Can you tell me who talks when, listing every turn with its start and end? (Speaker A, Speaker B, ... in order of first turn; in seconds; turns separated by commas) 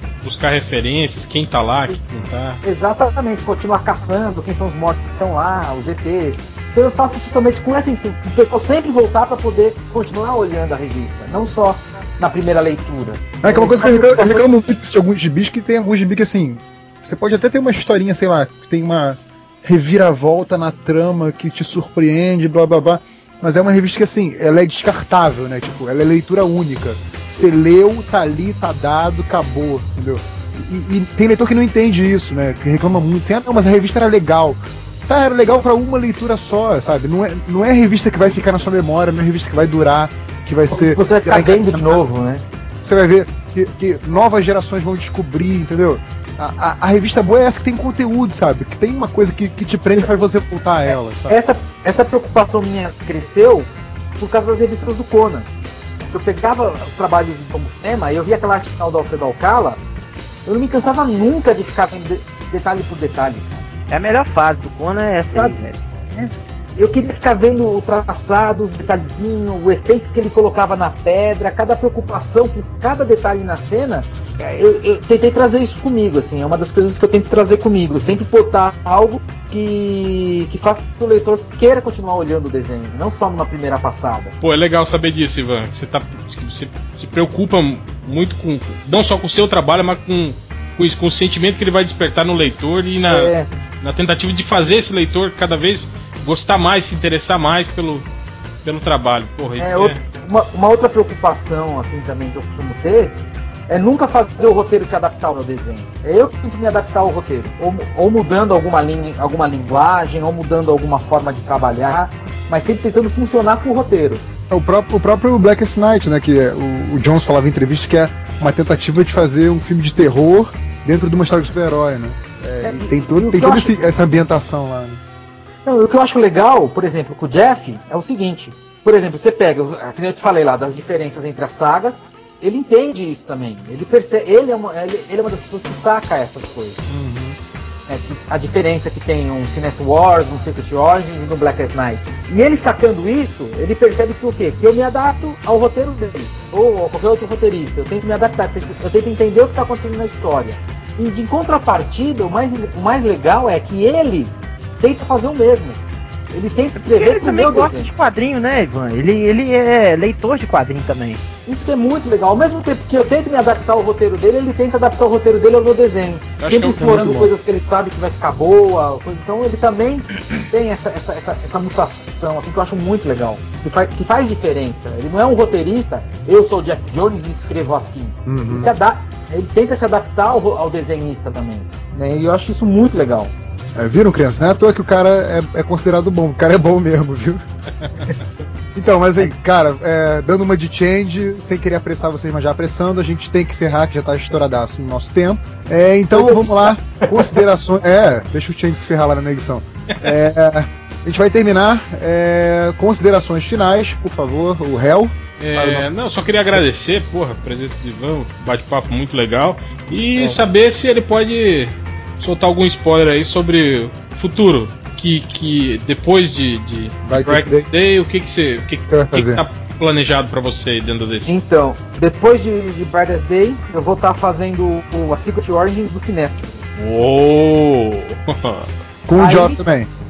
Speaker A: 0.2-2.6, Speaker B: 2.6-14.6, Speaker C: 13.4-42.0, Speaker B: 40.7-42.4, Speaker C: 42.8-51.4, Speaker B: 51.3-55.5, Speaker B: 56.1-59.8, Speaker B: 60.5-63.6, Speaker D: 63.9-65.8, Speaker B: 65.3-65.6, Speaker B: 66.1-84.3, Speaker A: 84.4-98.0, Speaker B: 93.1-93.5, Speaker A: 98.6-100.0, Speaker B: 99.6-114.2, Speaker C: 114.5-125.0, Speaker B: 122.6-123.8, Speaker B: 125.7-136.8, Speaker C: 136.8-137.4, Speaker B: 137.9-155.8, Speaker B: 156.3-157.9, Speaker D: 156.8-161.2, Speaker B: 161.4-183.3, Speaker A: 166.4-167.3, Speaker C: 178.2-178.7, Speaker C: 183.7-187.4, Speaker C: 188.7-205.9, Speaker B: 196.1-197.3, Speaker A: 205.4-221.3, Speaker C: 217.0-217.7, Speaker C: 218.9-219.4, Speaker B: 221.2-226.6, Speaker A: 226.8-228.7, Speaker C: 229.1-229.9, Speaker B: 229.2-229.6